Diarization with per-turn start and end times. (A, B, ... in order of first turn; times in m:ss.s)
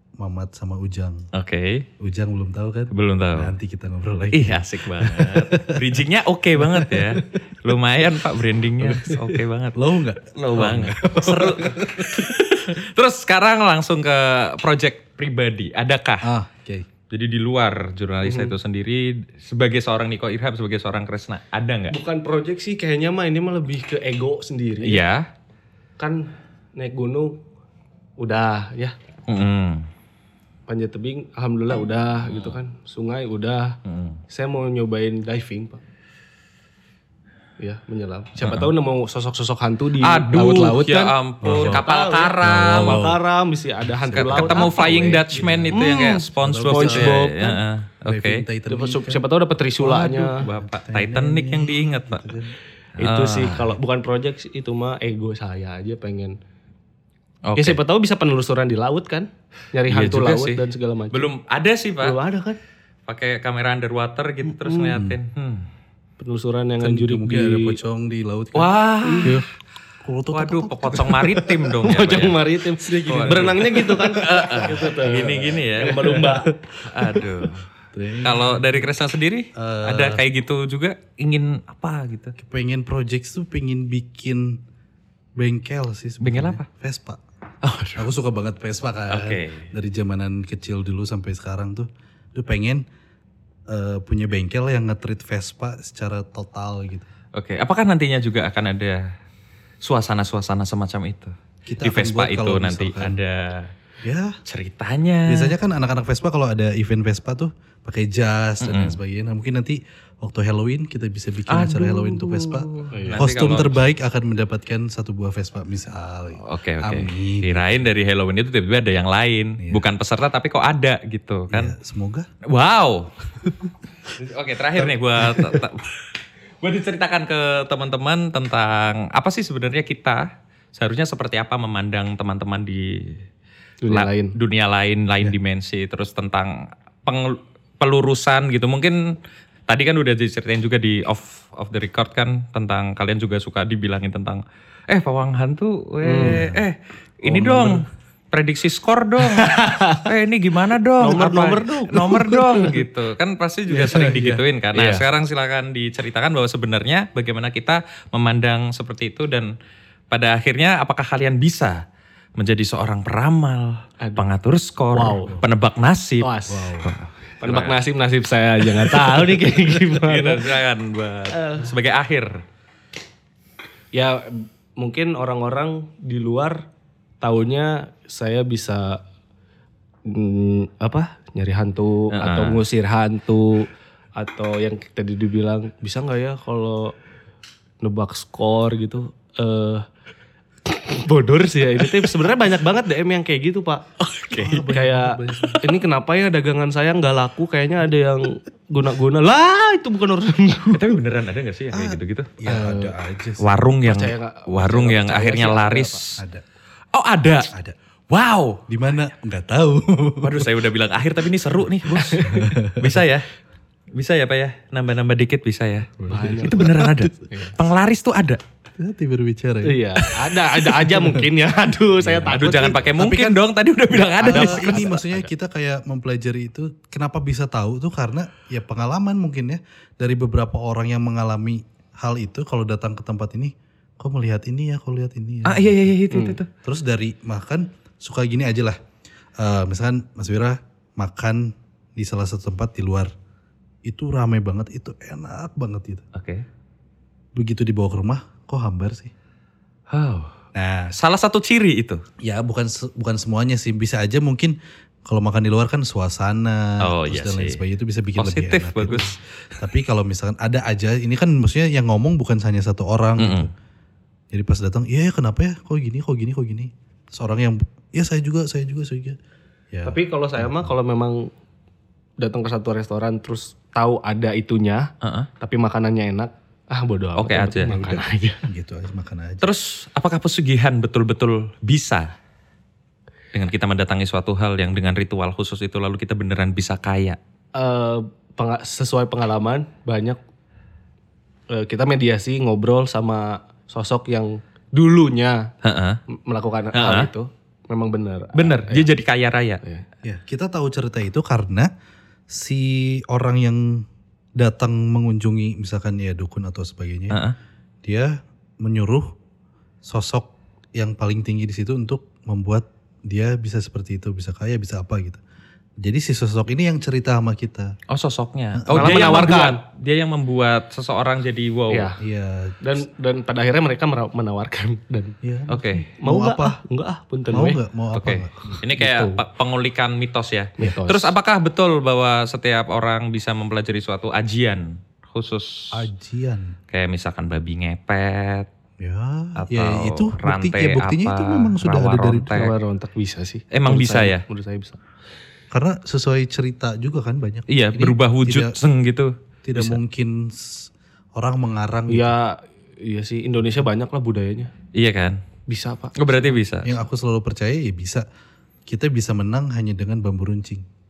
0:00.2-0:01.2 A
0:01.3-0:01.9 B
0:02.0-0:06.0 A
0:02.9-0:03.5 B
0:04.3-0:16.3 B
0:06.6-0:07.2 A
0:08.8-0:12.3 A
0:16.2-0:16.9 A
0:17.1-0:21.9 B
0:18.2-0:18.5 C
0:21.9-0:25.0 C
0:24.8-0:25.3 B
0:26.0-0:27.4 C
0:28.2-0:28.9 C
0:29.3-0:29.9 B
0:30.7-0:35.8 C
0:32.3-0:32.5 B
0:33.8-0:34.2 B
0:37.6-0:47.6 C
0:38.4-0:38.7 B
0:40.0-0:43.1 B
0:41.4-0:41.8 A
0:42.4-0:43.2 A
0:43.8-0:47.3 A
0:44.2-0:48.4 B
0:48.0-0:49.2 A
0:48.7-0:50.4 C
0:49.8-0:52.4 B
0:50.6-0:52.5 A
0:53.0-0:53.7 B
0:53.0-0:56.4 C
0:57.4-0:57.8 B
0:57.6-1:01.3 C
0:59.9-1:02.2 B
1:02.0-1:02.6 C
1:03.1-1:05.7 B
1:04.5-1:05.0 C
1:04.9-1:05.2 A
1:06.2-1:07.8 C
1:06.8-1:09.4 A
1:08.5-1:09.4 B
1:09.0-1:09.3 C
1:10.0-1:11.7 A
1:10.3-1:17.7 B
1:11.8-1:16.5 C
1:12.8-1:14.7 A
1:16.0-1:16.3 A
1:17.0-1:17.3 A
1:17.9-1:18.6 A
1:18.2-1:22.4 B
1:19.5-1:20.2 A
1:22.4-1:24.6 A
1:25.4-1:27.2 A
1:26.2-1:26.6 B
1:27.6-1:28.1 B
1:28.0-1:32.8 A
1:29.1-1:29.7 B
1:33.7-1:37.1 A
1:37.3-1:39.0 B
1:39.8-1:43.7 B
1:41.6-1:43.2 A
1:44.0-1:44.4 A
1:44.5-1:45.5 B
1:45.3-1:57.9 A
1:48.6-1:49.0 B
1:51.5-1:53.8 B
1:52.9-1:53.3 C
1:56.4-2:01.7 B
1:59.6-1:59.8 A
2:01.5-2:02.3 A
2:02.5-2:03.1 B
2:04.1-2:06.1 B
2:04.8-2:05.6 A
2:06.6-2:13.2 B
2:13.8-2:14.3 C
2:13.9-2:19.1 B
2:19.7-2:39.5 B
2:26.0-2:26.4 C
2:26.2-2:26.6 A
2:27.2-2:27.8 A
2:29.2-2:30.1 C
2:31.0-2:32.7 C
2:33.7-2:34.0 C
2:33.8-2:34.4 A
2:34.7-2:35.0 C
2:40.1-2:41.8 B
2:42.4-2:46.3 B
2:44.0-2:44.3 C
2:44.9-2:45.4 C
2:46.2-2:46.8 C
2:46.5-2:46.9 A
2:46.8-2:47.8 B
2:47.4-2:50.5 C
2:48.7-2:52.4 B
2:51.3-2:51.7 C
2:53.9-2:56.6 C
2:57.2-2:59.0 C
3:00.0-3:07.0 C
3:02.1-3:02.6 B
3:07.8-3:09.8 C
3:10.7-3:13.8 C
3:14.0-3:14.7 B
3:14.3-3:15.8 A
3:14.5-3:20.8 C
3:20.7-3:22.4 B
3:21.7-3:23.5 A
3:22.4-3:22.9 C
3:23.4-3:26.2 B
3:23.8-3:26.0 C
3:26.2-3:26.4 A
3:26.9-3:27.5 B
3:27.5-3:27.8 A
3:28.1-3:28.7 B
3:28.7-3:30.5 A
3:30.2-3:33.2 B
3:31.9-3:33.0 A
3:32.0-3:32.3 C
3:33.9-3:38.4 B
3:36.0-3:37.1 A
3:36.1-3:37.6 C
3:38.8-3:41.2 A
3:39.6-3:42.8 C
3:42.0-3:43.4 A
3:42.2-3:44.9 B
3:43.9-3:45.3 C
3:44.2-3:55.7 A
3:55.4-3:56.5 B
3:56.1-3:56.4 C
3:56.6-3:58.8 A
3:59.4-4:03.1 A
4:03.8-4:06.0 A
4:06.1-4:06.4 B
4:07.4-4:09.1 A
4:09.9-4:10.3 B
4:10.5-4:10.9 A
4:10.9-4:12.0 B
4:12.2-4:14.5 A
4:15.0-4:23.5 A
4:16.8-4:17.6 B
4:18.2-4:19.1 B
4:23.2-4:23.5 B
4:24.3-4:29.2 A
4:29.7-4:30.7 A
4:29.8-4:31.3 C
4:32.2-4:38.4 C
4:35.0-4:35.3 B
4:37.2-4:37.8 B
4:37.7-4:39.4 A
4:39.4-4:42.1 B
4:43.3-4:47.2 B
4:47.6-4:50.2 C
4:51.5-4:55.5 C
4:55.6-4:56.0 B
4:56.1-4:58.9 C
4:56.7-4:57.1 B
4:58.3-4:59.6 B
5:00.0-5:01.7 A
5:02.3-5:03.8 A
5:04.4-5:07.2 A
5:07.1-5:07.4 B
5:07.8-5:09.1 A
5:09.8-5:15.2 A
5:15.8-5:17.7 A
5:17.9-5:21.9 B
5:18.6-5:19.1 A
5:18.7-5:19.6 C
5:21.7-5:22.0 C
5:22.0-5:22.6 A
5:22.6-5:25.1 C
5:25.2-5:26.6 A
5:25.5-5:25.9 B
5:26.0-5:27.6 C
5:27.3-5:28.6 A
5:27.9-5:35.8 B
5:28.5-5:29.2 C
5:30.6-5:31.1 C
5:35.7-5:36.6 A
5:36.7-5:38.5 B
5:38.8-5:42.4 A
5:39.4-5:42.5 B
5:42.3-5:44.8 C
5:43.5-5:44.2 B
5:45.5-5:48.6 A
5:47.5-5:49.8 B
5:49.4-5:52.1 A
5:51.9-5:54.5 C
5:54.7-5:55.2 B
5:55.5-5:56.4 C
5:56.0-5:56.7 B
5:56.6-5:58.0 A
5:58.7-6:00.6 A